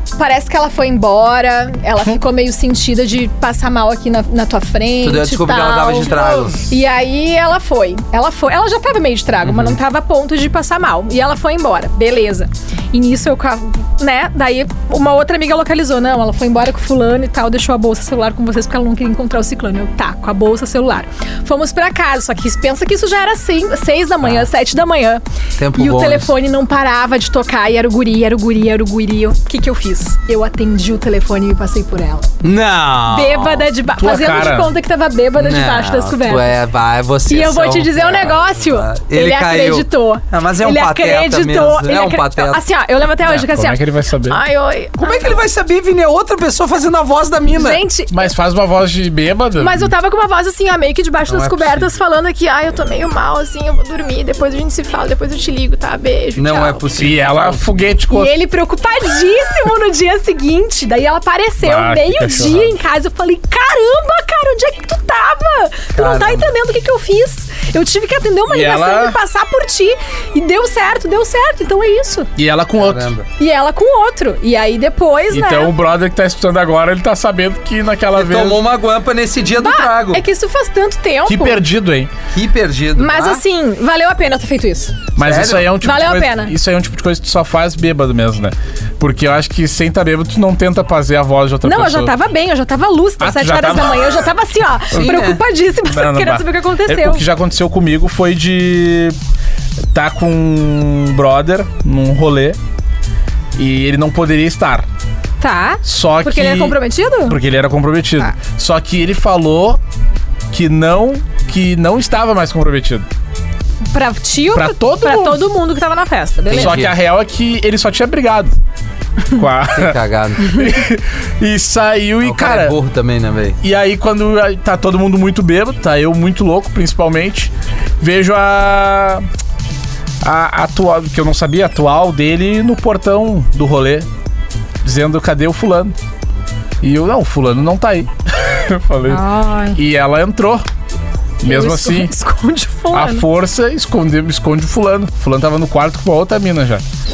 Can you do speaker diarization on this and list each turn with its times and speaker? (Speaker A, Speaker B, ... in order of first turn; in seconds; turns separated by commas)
Speaker A: 0.1-25.2, Speaker B: 5.0-6.6, Speaker B: 9.4-9.7, Speaker B: 25.6-26.3, Speaker A: 25.8-32.3, Speaker B: 32.4-33.7, Speaker A: 33.1-36.5, Speaker C: 34.0-34.7, Speaker B: 35.4-42.6, Speaker A: 37.3-45.4, Speaker C: 43.2-44.4, Speaker B: 45.0-47.8, Speaker A: 47.5-48.3, Speaker C: 48.1-49.9, Speaker A: 49.6-56.8, Speaker B: 51.3-51.9, Speaker B: 56.4-57.6, Speaker C: 57.0-58.3, Speaker A: 58.1-72.3, Speaker C: 61.6-62.7, Speaker B: 65.9-66.5, Speaker C: 68.5-69.2, Speaker C: 72.4-73.1, Speaker B: 72.8-73.3, Speaker A: 73.4-75.7, Speaker C: 75.3-78.6, Speaker B: 78.2-80.2, Speaker A: 79.5-81.6, Speaker C: 81.3-82.1, Speaker B: 82.3-83.4, Speaker A: 83.0-85.0, Speaker C: 85.2-92.1, Speaker B: 85.2-85.7, Speaker A: 85.8-86.5, Speaker A: 91.6-97.2, Speaker C: 93.2-94.2, Speaker B: 94.9-95.4, Speaker C: 95.8-99.2, Speaker C: 99.9-102.6, Speaker C: 103.5-104.9, Speaker A: 105.4-107.4, Speaker C: 105.8-109.8, Speaker C: 110.5-113.0, Speaker A: 113.9-116.7, Speaker C: 114.5-115.4, Speaker B: 116.5-117.0, Speaker C: 116.5-118.5, Speaker C: 119.3-122.7, Speaker B: 119.7-120.7, Speaker B: 122.2-123.6, Speaker C: 123.6-129.2, Speaker C: 130.2-134.1, Speaker C: 134.8-135.9, Speaker C: 136.8-140.6, Speaker A: 139.1-139.8, Speaker C: 141.4-142.1, Speaker A: 141.4-143.2, Speaker C: 142.9-146.8